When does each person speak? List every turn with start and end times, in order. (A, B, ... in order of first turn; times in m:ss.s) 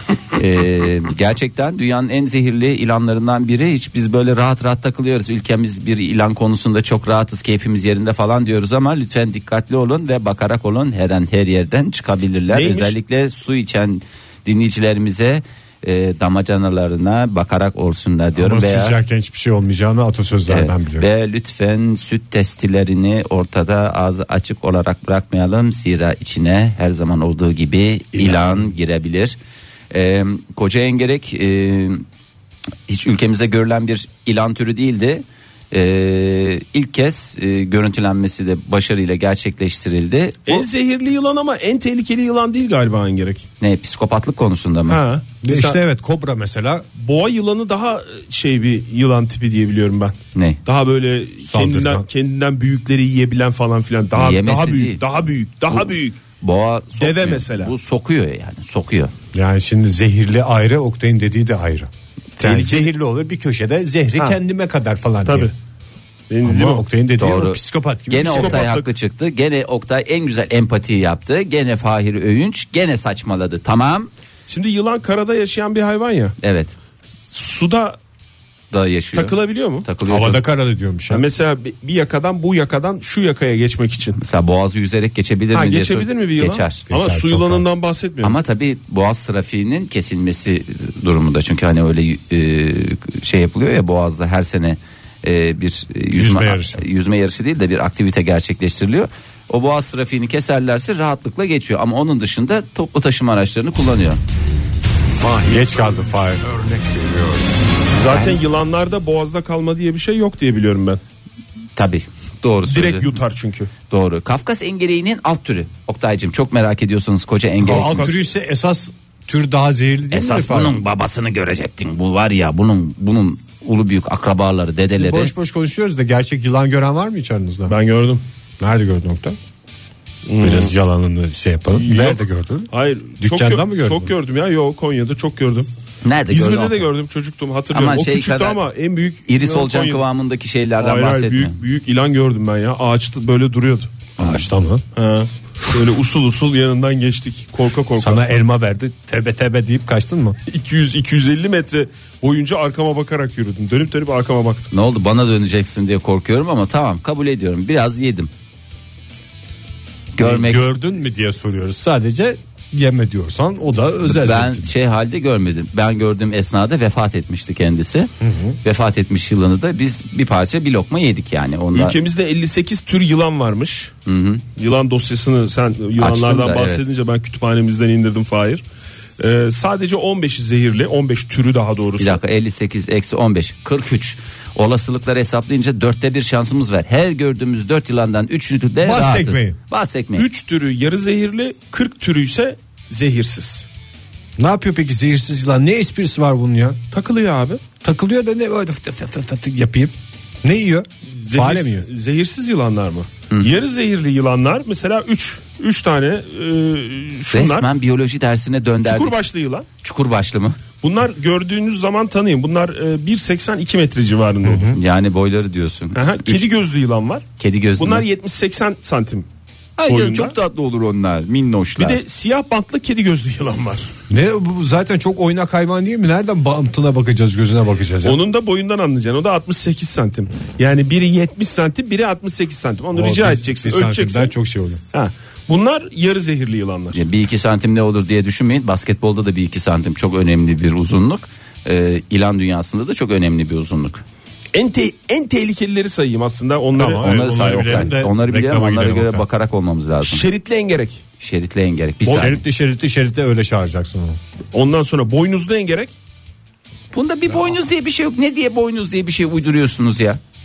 0:00.3-0:19.0 A
0:12.5-0:12.9 B
0:18.4-0:21.0 C
0:20.5-0:29.4 A
0:28.1-0:28.7 C
0:29.9-0:32.0 A
0:32.9-0:40.7 A
0:40.5-0:43.4 B
0:43.6-0:45.0 A
0:44.9-0:45.8 B
0:45.4-0:46.8 C
0:47.0-0:56.2 B
0:50.3-0:50.6 A
0:51.5-0:52.0 C
0:54.1-0:55.0 A
0:55.7-0:59.1 A
0:57.0-0:57.7 B
0:59.3-1:05.5 C
1:02.4-1:02.9 B
1:05.2-1:05.5 B
1:06.3-1:06.8 B
1:06.4-1:08.7 C
1:07.2-1:07.6 A
1:08.1-1:14.1 A
1:08.2-1:08.9 B
1:14.5-1:16.4 B
1:16.4-1:16.7 A
1:17.3-1:18.0 B
1:18.7-1:20.4 A
1:19.1-1:19.8 B
1:20.1-1:21.2 C
1:21.1-1:24.2 B
1:24.2-1:26.9 A
1:25.5-1:28.4 B
1:26.9-1:27.6 C
1:28.2-1:44.2 A
1:36.2-1:36.8 C
1:45.1-1:47.4 C
1:47.9-1:51.0 B
1:51.8-1:53.2 A
1:52.7-1:53.7 B
1:53.9-1:58.1 A
1:57.6-2:00.8 C
1:57.6-1:58.2 B
2:00.1-2:05.3 A
2:04.9-2:07.8 C
2:07.7-2:08.2 B
2:08.6-2:09.4 C
2:10.3-2:10.7 B
2:10.4-2:14.1 C
2:11.7-2:15.7 B
2:16.0-2:16.8 A
2:16.3-2:20.0 B
2:17.7-2:18.6 A
2:19.3-2:21.5 A
2:20.8-2:23.9 B
2:24.2-2:24.8 C
2:25.0-2:28.3 B
2:27.9-2:30.4 C
2:30.5-2:34.7 B
2:34.7-2:38.3 A
2:40.1-2:40.6 A
2:40.2-2:44.7 C
2:44.1-2:48.1 A
2:48.2-2:48.6 C
2:48.6-2:52.0 A
2:51.7-2:53.9 B
2:54.1-2:54.4 A
2:54.6-2:58.6 B
2:56.0-2:56.8 A
2:59.2-3:02.2 B
3:02.0-3:10.2 A
3:08.8-3:09.6 C
3:10.2-3:13.7 B
3:14.4-3:16.8 C
3:16.9-3:17.6 B
3:17.8-3:21.8 C
3:21.2-3:27.7 B
3:23.3-3:23.6 A
3:27.3-3:29.1 A
3:28.8-3:29.7 B
3:29.8-3:30.6 A
3:30.8-3:34.8 B
3:34.4-3:34.8 C
3:34.8-3:36.5 A
3:35.9-3:37.2 B
3:37.4-3:38.0 A
3:37.8-3:39.2 B
3:39.8-3:42.0 A
3:39.9-3:40.4 B
3:41.8-3:43.9 B
3:44.1-3:48.2 C
3:48.0-3:54.3 B
3:52.9-3:54.8 C
3:54.9-3:57.0 B
3:56.9-4:04.0 A
4:04.5-4:07.1 B
4:06.8-4:09.2 C
4:07.0-4:10.2 A
4:10.0-4:11.0 B
4:11.2-4:12.4 A
4:12.0-4:12.3 B
4:12.1-4:14.2 C
4:14.5-4:15.9 B
4:16.9-4:20.2 A